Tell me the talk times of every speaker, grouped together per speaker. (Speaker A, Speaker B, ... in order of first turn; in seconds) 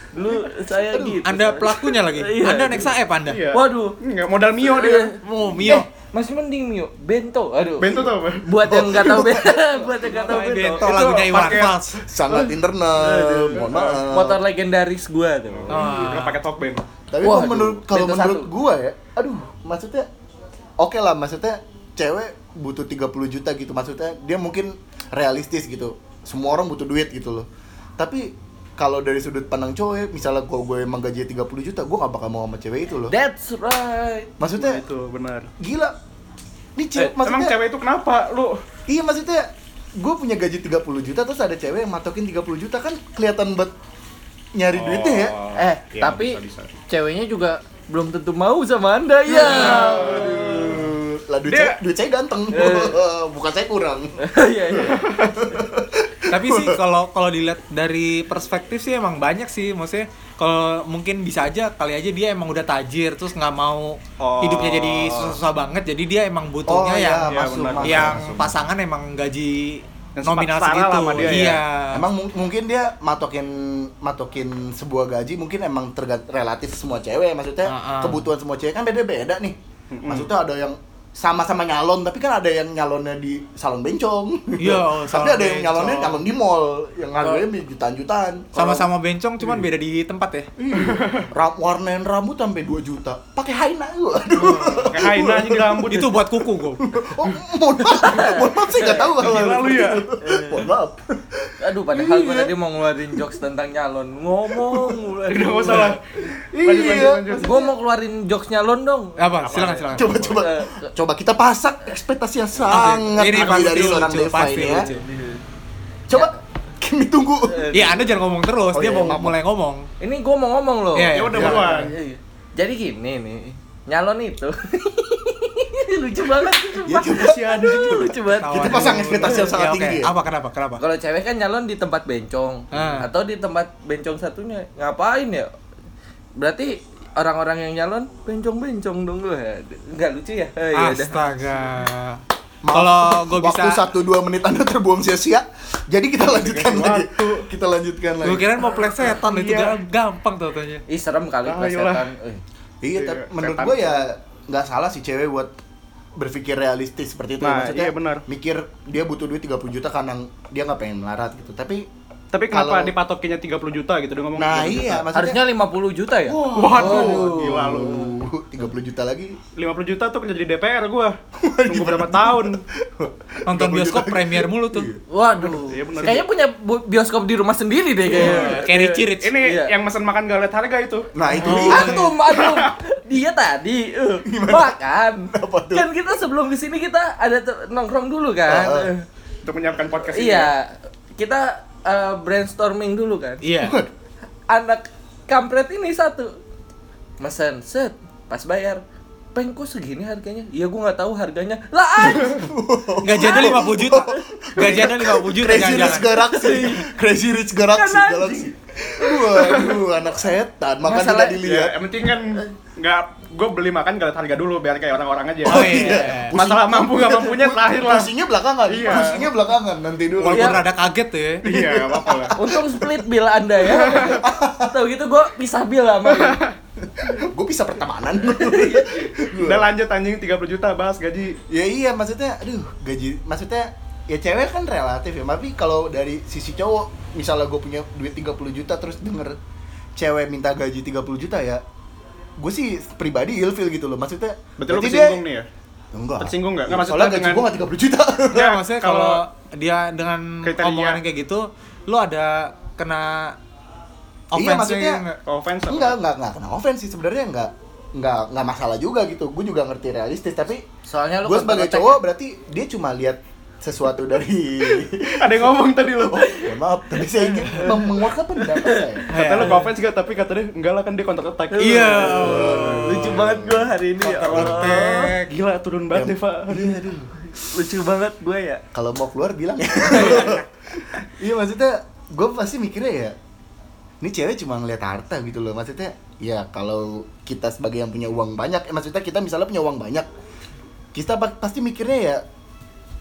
Speaker A: 0.1-2.9, 3.5-4.0, 4.6-11.3, 12.9-15.8, 17.2-18.5, 33.1-34.3, 45.5-50.8, 52.5-53.0, 54.2-55.1, 97.9-99.4, 100.2-100.7, 101.6-109.6, 110.3-110.9, 114.7-115.4, 116.1-116.4, 117.4-118.0, 120.0-129.5, 130.8-135.5, 136.4-141.3, 150.9-152.4, 165.1-167.7, 175.1-179.7, 181.7-189.0, 190.0-193.4, 194.5-196.3, 197.2-198.8, 199.3-202.4, 203.1-203.6, 206.0-206.9, 207.7-209.8, 210.8-211.4, 222.3-226.4, 228.3-229.2, 260.8-262.0, 267.1-269.0, 271.5-275.2, 277.3-278.6, 279.9-280.4
Speaker B: 0.7-1.2, 8.6-9.8, 12.0-14.4, 17.1-20.1, 20.8-27.5, 28.0-33.1, 34.4-34.8, 35.6-35.9, 36.8-37.6, 38.9-43.7, 44.5-45.4, 49.3-54.4, 55.1-56.8, 66.7-68.5, 71.9-88.9, 90.6-95.9, 96.8-102.5, 104.5-105.0, 106.5-107.7, 109.9-114.9, 116.1-117.7, 118.7-119.4, 121.3-121.7, 126.8-130.1, 142.6-148.7, 152.8-155.5, 156.2-161.9, 162.5-162.9, 164.3-165.4, 166.3-169.4, 171.4-175.5, 181.1-182.1, 184.2-185.8, 188.4-188.9, 193.6-193.9, 202.0-211.8, 215.4-220.7, 221.4-223.0, 223.9-224.8, 226.9-229.7, 231.5-239.4, 239.9-241.6, 242.4-245.2, 245.9-248.5, 254.3-255.0, 255.7-260.6, 261.2-269.0, 272.0-273.7, 274.3-274.6, 275.9-277.1, 278.7-280.4, 281.0-283.1, 284.0-290.1, 290.9-292.2
Speaker C: 1.2-3.4, 5.2-5.9, 10.0-12.0, 15.7-16.4, 56.3-72.0, 77.7-78.2, 84.6-86.2, 88.5-90.5, 94.3-94.9, 95.9-96.9, 109.2-110.2, 112.7-115.0, 117.7-119.8, 121.0-121.9, 128.4-130.8, 132.7-133.1, 140.7-142.2, 142.7-143.8, 148.2-150.8, 173.4-174.9, 178.1-179.4, 181.4-182.1, 193.4-193.8, 203.0-206.1, 215.4-216.3, 220.2-221.4, 248.3-253.3, 254.3-255.2, 269.1-269.7, 271.6-273.2, 274.0-275.3
Speaker D: 3.2-5.1, 7.8-8.5, 10.8-12.6, 13.5-14.1, 15.5-16.8, 34.5-35.5, 37.0-38.6, 44.7-46.7, 49.4-50.9, 51.5-51.8, 54.8-55.4, 64.2-65.4, 67.3-68.5, 70.2-71.6, 79.9-80.3, 90.7-91.3, 94.8-96.2, 99.1-100.1, 105.3-106.0, 106.6-107.7, 109.4-110.4, 113.4-113.7, 121.1-121.9, 146.2-147.4, 149.1-149.7, 151.4-152.1, 152.9-154.0, 157.4-158.2, 162.3-165.0, 166.5-168.1, 169.6-172.6, 175.5-176.2, 178.2-178.4, 179.2-182.7, 189.4-190.5, 211.4-218.1, 218.7-219.3, 221.4-222.3, 223.6-224.2, 226.1-226.6, 229.3-231.4, 244.6-245.5, 246.2-247.4, 248.3-249.2, 250.4-251.0, 255.2-255.9, 265.2-266.5, 269.1-272.1, 275.3-276.8